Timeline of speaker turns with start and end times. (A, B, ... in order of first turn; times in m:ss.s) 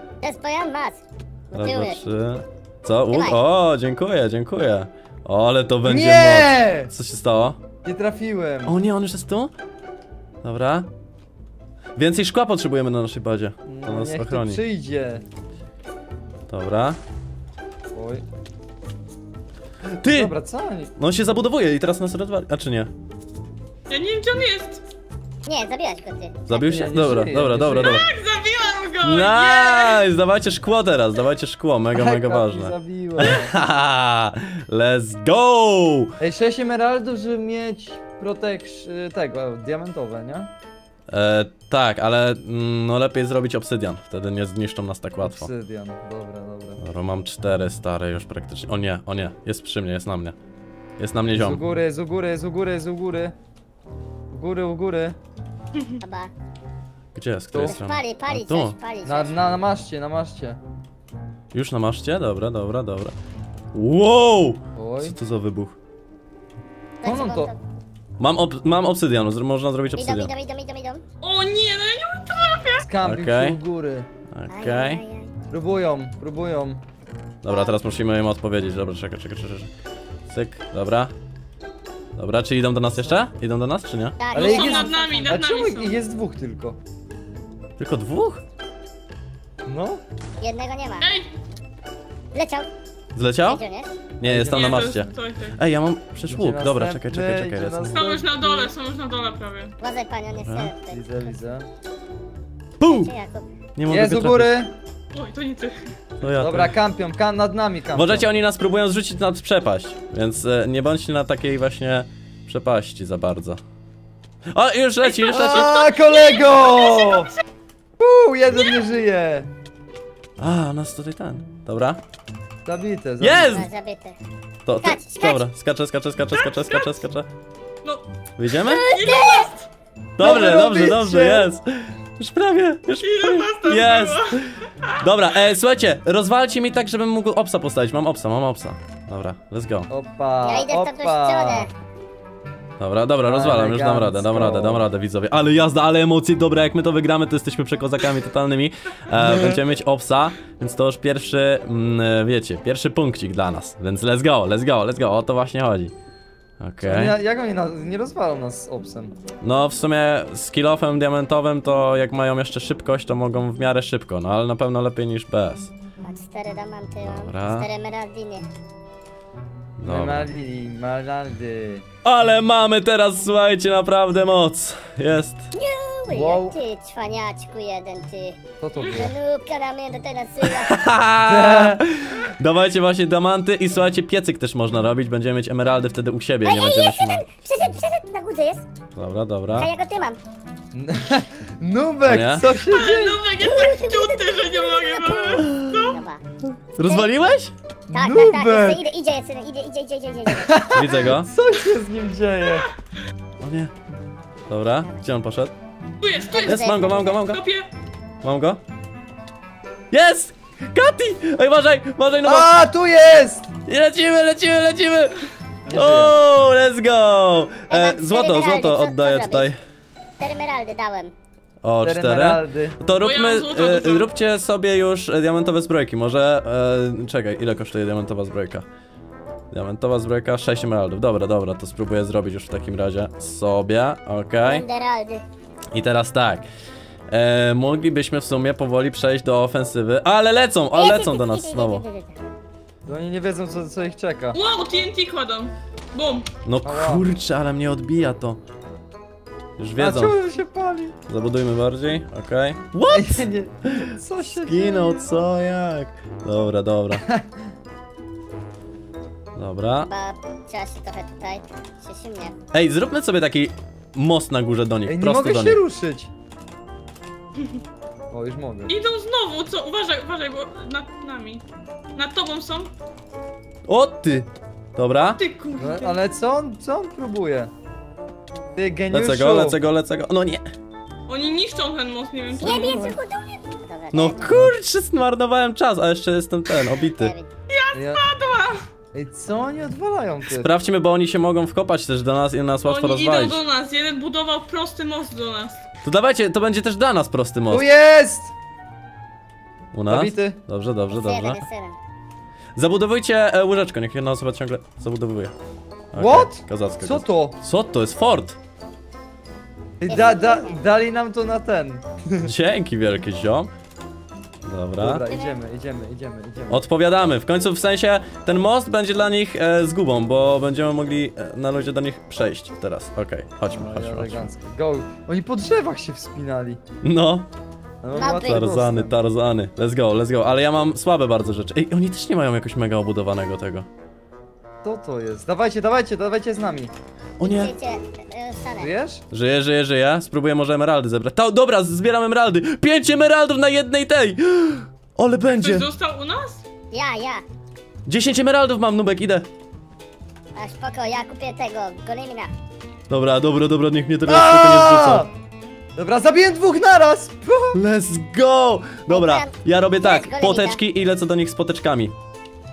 0:00.2-0:02.0 A
0:01.6-0:07.6 B
0:03.1-0:03.4 A
0:05.8-0:06.9 C
0:07.8-0:08.8 C
0:08.7-0:09.5 B
0:10.4-0:10.9 B
0:12.0-0:14.6 B
0:13.7-0:15.2 C
0:16.5-0:17.0 B
0:17.9-0:18.2 C
0:20.0-0:20.3 B
0:20.0-0:20.9 C
0:21.0-0:22.9 B
0:23.9-0:24.8 D
0:25.4-0:26.4 A
0:26.5-0:28.1 B
0:26.6-0:28.0 C
0:27.8-0:30.1 D
0:29.0-0:36.2 B
0:31.9-0:33.5 C
0:36.2-0:40.5 C
0:41.1-0:45.5 B
0:45.2-0:46.8 C
0:46.8-0:50.4 B
0:51.0-0:51.6 B
0:51.3-0:53.3 C
0:54.3-0:55.2 C
0:56.0-0:56.3 A
0:57.1-0:58.8 B
0:57.5-0:57.8 C
0:57.6-0:59.3 A
0:59.0-1:00.6 C
1:01.5-1:03.2 B
1:03.7-1:05.8 B
1:04.8-1:05.2 C
1:07.0-1:07.6 A
1:07.0-1:07.5 C
1:08.2-1:10.3 B
1:10.0-1:11.0 A
1:11.2-1:12.8 D
1:12.8-1:14.1 C
1:13.0-1:13.6 B
1:14.3-1:15.0 B
1:14.5-1:15.3 A
1:15.5-1:16.8 C
1:17.4-1:19.7 B
1:17.5-1:17.8 A
1:20.3-1:21.1 B
1:22.2-1:24.2 B
1:24.2-1:25.4 A
1:24.3-1:25.9 D
1:24.3-1:26.8 C
1:27.8-1:28.4 B
1:29.6-1:30.0 C
1:30.4-1:31.1 A
1:31.0-1:31.3 D
1:32.3-1:32.7 A
1:33.2-1:33.6 B
1:33.5-1:33.9 A
1:34.2-1:38.1 B
1:34.2-1:35.1 C
1:34.5-1:35.6 D
1:36.3-1:38.7 C
1:37.9-1:39.8 D
1:39.8-1:41.0 A
1:40.4-1:40.7 B
1:40.9-1:41.7 C
1:42.8-1:43.1 B
1:42.8-1:43.5 A
1:43.8-1:44.6 B
1:43.9-1:44.7 C
1:45.1-1:45.8 D
1:46.2-1:46.7 B
1:46.4-1:48.3 C
1:47.9-1:53.6 B
1:54.5-1:55.8 B
1:55.2-1:57.3 C
1:55.3-1:55.7 D
1:58.0-1:59.5 C
2:00.4-2:02.0 B
2:02.6-2:03.6 C
2:03.2-2:03.7 B
2:03.5-2:04.2 A
2:04.7-2:07.3 B
2:04.8-2:05.4 A
2:06.4-2:07.0 D
2:08.4-2:08.8 B
2:08.6-2:09.5 A
2:08.7-2:09.7 D
2:10.2-2:19.9 B
2:10.2-2:11.5 C
2:13.0-2:15.0 D
2:19.9-2:21.7 C
2:20.4-2:21.7 A
2:22.8-2:35.9 B
2:23.2-2:24.9 C
2:29.2-2:29.6 C
2:36.6-2:37.2 B
2:36.8-2:39.2 C
2:39.4-2:45.7 B
2:46.0-2:48.5 A
2:47.0-2:47.7 B
2:49.8-2:50.3 B
2:49.9-2:51.8 C
2:52.0-2:55.5 B
2:55.6-3:00.8 A
2:56.1-2:56.6 C
2:58.6-2:59.2 C
3:00.4-3:07.2 B
3:01.2-3:01.8 C
3:06.4-3:08.6 A
3:09.0-3:09.7 B
3:09.5-3:10.2 A
3:10.7-3:13.2 C
3:12.0-3:12.5 B
3:12.7-3:16.0 D
3:13.4-3:16.2 A
3:15.4-3:15.8 B
3:16.5-3:17.5 B
3:16.8-3:17.1 A
3:17.9-3:18.9 C
3:17.9-3:20.6 A
3:20.4-3:22.7 C
3:20.7-3:21.3 B
3:23.4-3:23.7 B
3:24.5-3:25.5 B
3:26.0-3:27.7 D
3:26.3-3:27.2 A
3:26.4-3:27.4 B
3:28.2-3:28.6 B
3:29.9-3:32.5 B
3:32.2-3:33.5 C
3:33.7-3:39.6 B
3:35.7-3:36.2 C
3:37.7-3:39.5 A
3:40.2-3:41.1 A
3:41.6-3:48.7 B
3:41.8-3:42.8 C
3:43.0-3:44.1 D
3:49.5-3:54.6 B
3:54.4-3:55.2 A
3:55.7-3:56.4 B
3:57.1-4:01.8 B
4:00.7-4:02.2 A
4:02.9-4:04.4 C
4:04.3-4:06.3 D
4:06.4-4:08.4 B
4:06.6-4:07.0 C
4:09.6-4:10.2 B
4:09.8-4:11.0 C
4:11.1-4:13.3 B
4:12.9-4:15.1 C
4:13.8-4:17.0 B
4:17.0-4:17.4 C
4:19.4-4:19.9 B
4:19.8-4:22.4 A
4:22.5-4:25.6 B
4:24.9-4:26.1 C
4:28.1-4:28.8 C
4:28.7-4:32.7 D
4:33.7-4:35.2 B
4:35.2-4:36.0 D
4:35.6-4:37.5 C
4:38.6-4:39.6 C
4:38.9-4:40.4 B
4:41.1-4:43.0 D
4:42.4-4:44.5 A
4:43.9-4:47.1 B
4:46.8-4:47.3 A
4:47.5-4:48.6 D
4:47.7-4:48.0 C
4:48.9-4:50.5 C
4:50.3-4:53.4 B
4:52.6-4:55.6 D
4:55.8-4:57.7 B
4:57.5-4:58.3 C
4:59.7-5:01.4 B
4:59.9-5:00.4 C
5:00.9-5:01.8 A
5:02.6-5:05.3 B
5:05.9-5:08.4 B
5:06.0-5:07.4 C
5:09.8-5:12.3 C
5:09.9-5:10.6 A
5:12.2-5:13.5 B
5:14.4-5:15.0 B
5:14.8-5:16.6 C
5:15.1-5:15.4 A
5:16.5-5:24.3 B
5:23.5-5:26.6 C
5:26.8-5:27.3 B
5:27.8-5:29.0 C
5:27.9-5:28.4 A
5:28.2-5:33.7 B
5:34.6-5:36.7 C
5:37.2-5:37.5 B
5:37.2-5:38.7 A
5:38.6-5:39.0 C
5:39.1-5:45.7 B
5:45.3-5:46.4 D
5:46.7-5:47.2 A
5:47.9-5:49.3 B
5:50.4-5:52.3 A
5:52.9-5:55.1 B
5:54.1-5:55.1 C
5:55.8-5:57.6 C
5:57.5-6:01.9 B
5:58.9-6:00.6 A